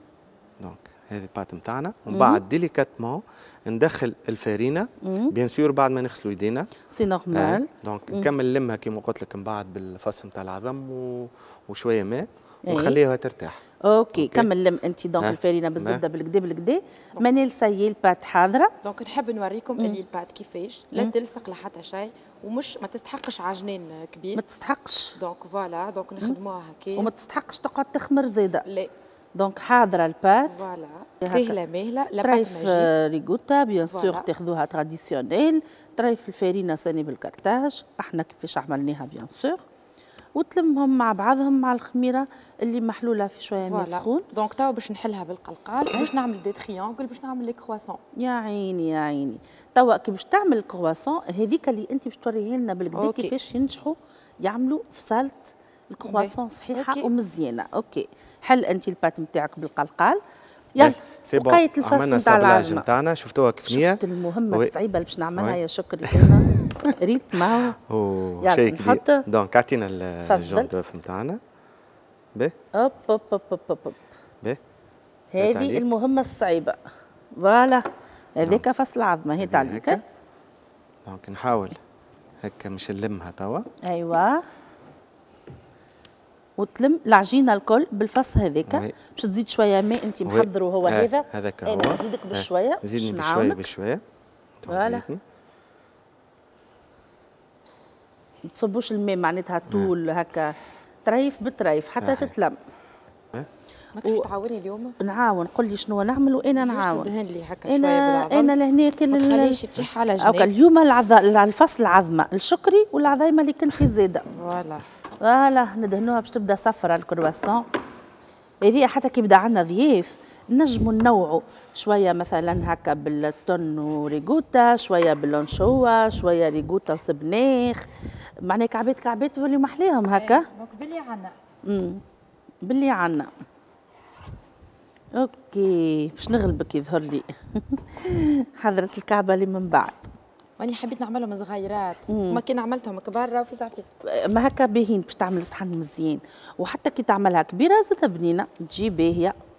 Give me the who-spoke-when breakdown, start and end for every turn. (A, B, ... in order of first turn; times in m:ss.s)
0:00.6-0:06.7 A
0:02.1-0:02.4 B
0:05.0-0:05.3 B
0:06.9-0:08.3 B
0:07.3-0:13.6 A
0:12.7-0:13.0 B
0:13.8-0:18.7 B
0:14.1-0:14.5 A
0:15.2-0:16.0 A
0:18.8-0:24.4 C
0:24.4-0:25.1 B
0:25.2-0:27.1 C
0:27.0-0:28.6 B
0:28.6-0:28.9 C
0:29.4-0:30.6 B
0:30.5-0:32.9 C
0:31.2-0:31.6 B
0:32.2-0:39.6 B
0:33.9-0:34.3 C
0:40.3-0:44.2 B
0:43.6-0:48.0 C
0:48.2-0:55.4 B
0:52.9-0:53.3 C
0:55.9-1:00.2 B
0:56.0-0:57.1 C
1:00.8-1:02.9 B
1:00.8-1:04.7 A
1:03.7-1:07.8 B
1:05.4-1:11.4 A
1:08.4-1:09.2 B
1:10.2-1:10.7 B
1:12.7-1:14.0 B
1:15.3-1:16.8 B
1:15.4-1:15.8 A
1:17.4-1:20.0 B
1:19.4-1:20.0 A
1:21.0-1:21.8 A
1:22.4-1:23.6 A
1:23.8-1:24.4 B
1:26.6-1:33.6 B
1:28.7-1:28.9 A
1:30.2-1:34.0 A
1:34.6-1:35.2 A
1:34.7-1:35.0 B
1:38.5-1:42.6 B
1:42.0-1:42.3 A
1:44.0-1:45.0 C
1:45.0-1:47.1 B
1:46.6-1:48.5 C
1:47.7-1:49.6 B
1:49.1-1:50.5 C
1:50.2-1:54.2 B
1:54.3-1:54.8 C
1:55.2-1:57.6 B
1:58.6-2:07.8 B
2:08.4-2:10.4 B
2:10.1-2:11.3 C
2:11.6-2:12.0 B
2:12.6-2:13.3 B
2:15.2-2:20.0 B
2:20.6-2:23.9 C
2:22.1-2:22.4 B
2:24.0-2:29.4 B